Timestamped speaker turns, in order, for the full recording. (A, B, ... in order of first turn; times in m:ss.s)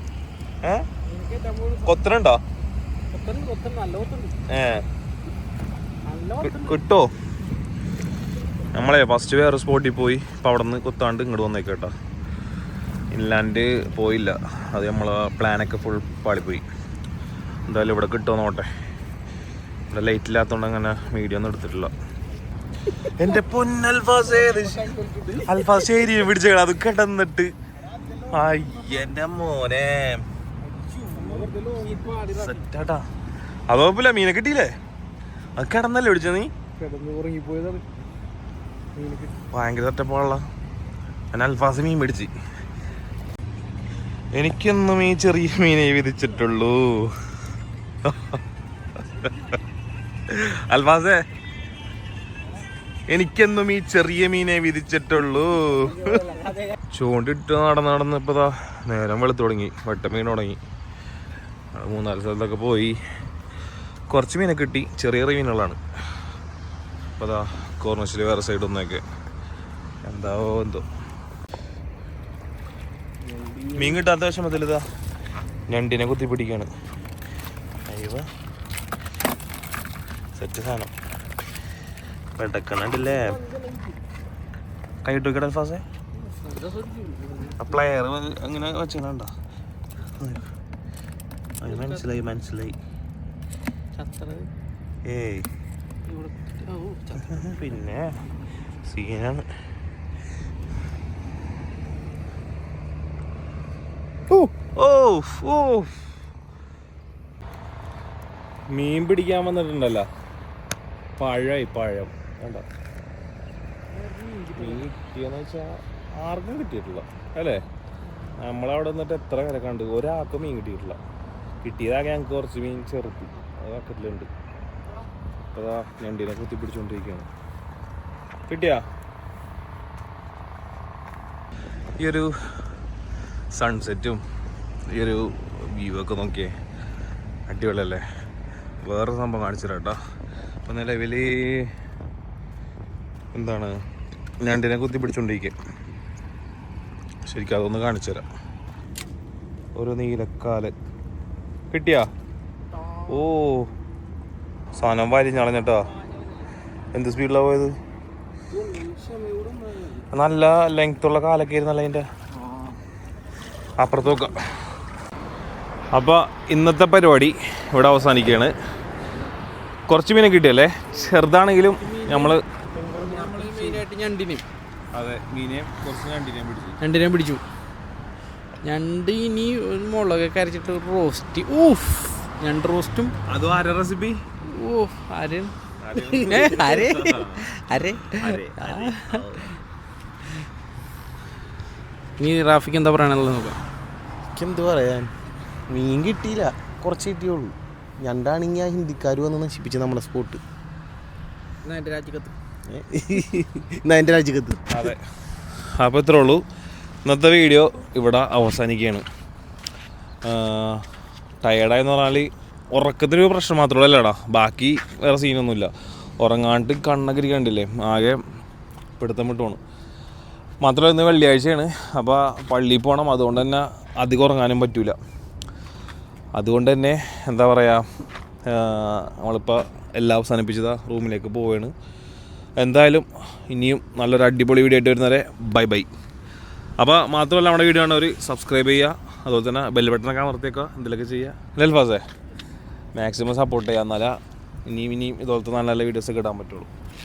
0:01.0-0:02.0 A
0:01.8-0:02.4 B
0:03.1-0:04.4 A
0:04.5-0:04.8 B
0:06.0-0:06.8 A
0:06.4-0:07.1 B
0:08.7-0:11.9 B
0:13.1-0:16.6 B
0:17.7-0:18.7 B
0:19.9-0:21.9 B
0:23.0-0:27.5 B
0:24.8-0:25.4 C
0:28.0-0:28.6 C
0:28.3-0:30.3 B
0:30.9-0:32.6 A
0:31.1-0:32.1 C
0:32.3-0:33.0 B
0:33.7-0:34.7 B
0:35.6-0:36.5 B
0:36.8-0:37.8 A
0:39.0-0:39.3 A
0:39.5-0:40.4 B
0:41.3-0:42.3 B
0:44.3-0:47.2 B
0:48.0-0:48.4 B
0:50.3-0:51.2 B
0:53.1-1:00.6 B
0:56.3-0:56.7 A
1:01.7-1:03.0 B
1:04.1-1:05.8 B
1:07.2-1:09.0 B
1:10.0-1:10.8 B
1:13.2-1:14.0 C
1:13.7-1:14.8 B
1:15.7-1:16.7 B
1:17.9-1:18.2 B
1:20.4-1:20.9 B
1:22.4-1:23.4 B
1:23.0-1:24.0 C
1:25.0-1:25.8 B
1:26.2-1:27.8 A
1:27.6-1:29.3 B
1:30.2-1:30.4 B
1:31.6-1:32.8 B
1:31.6-1:32.2 A
1:34.0-1:34.5 A
1:35.0-1:35.5 B
1:36.0-1:37.8 A
1:37.2-1:38.2 B
1:38.8-1:39.4 B
1:44.3-1:45.9 B
1:48.7-1:50.1 B
1:51.2-1:52.6 B
1:53.9-1:54.9 A
1:54.5-1:57.6 B
1:58.4-2:01.0 B
2:01.6-2:04.3 B
2:05.5-2:07.3 B
2:08.5-2:08.8 B
2:12.0-2:12.3 B
2:13.5-2:14.2 B
2:14.9-2:16.5 B
2:17.5-2:18.0 B
2:18.8-2:20.0 B
2:20.6-2:21.7 B
2:23.3-2:23.8 B
2:24.4-2:25.5 B
2:27.3-2:28.2 B
2:29.8-2:30.7 B
2:31.7-2:32.1 B
2:33.0-2:33.7 B
2:34.8-2:35.9 B
2:36.9-2:37.7 B
2:38.5-2:40.1 C
2:40.1-2:42.0 B
2:43.8-2:44.4 B
2:45.9-2:48.5 B
2:49.9-2:52.4 B
2:51.7-2:54.4 A
2:52.9-2:53.6 C
2:54.9-2:56.8 B
2:56.8-2:57.4 A
2:58.6-3:03.1 A
3:03.3-3:04.2 B
3:04.4-3:09.5 A
3:05.8-3:09.5 B
3:12.2-3:13.6 A
3:14.3-3:15.1 C
3:15.7-3:20.4 C
3:21.6-3:22.3 A
3:22.7-3:24.9 C
3:24.7-3:25.0 B
3:25.6-3:26.4 B
3:27.0-3:29.0 B
3:30.2-3:30.8 B
3:31.4-3:38.2 B
3:39.0-3:39.6 B
3:40.6-3:45.0 B
3:46.4-3:47.8 B
3:48.4-3:51.7 B
3:52.6-3:55.9 B
3:56.8-4:02.0 B
4:02.9-4:06.7 B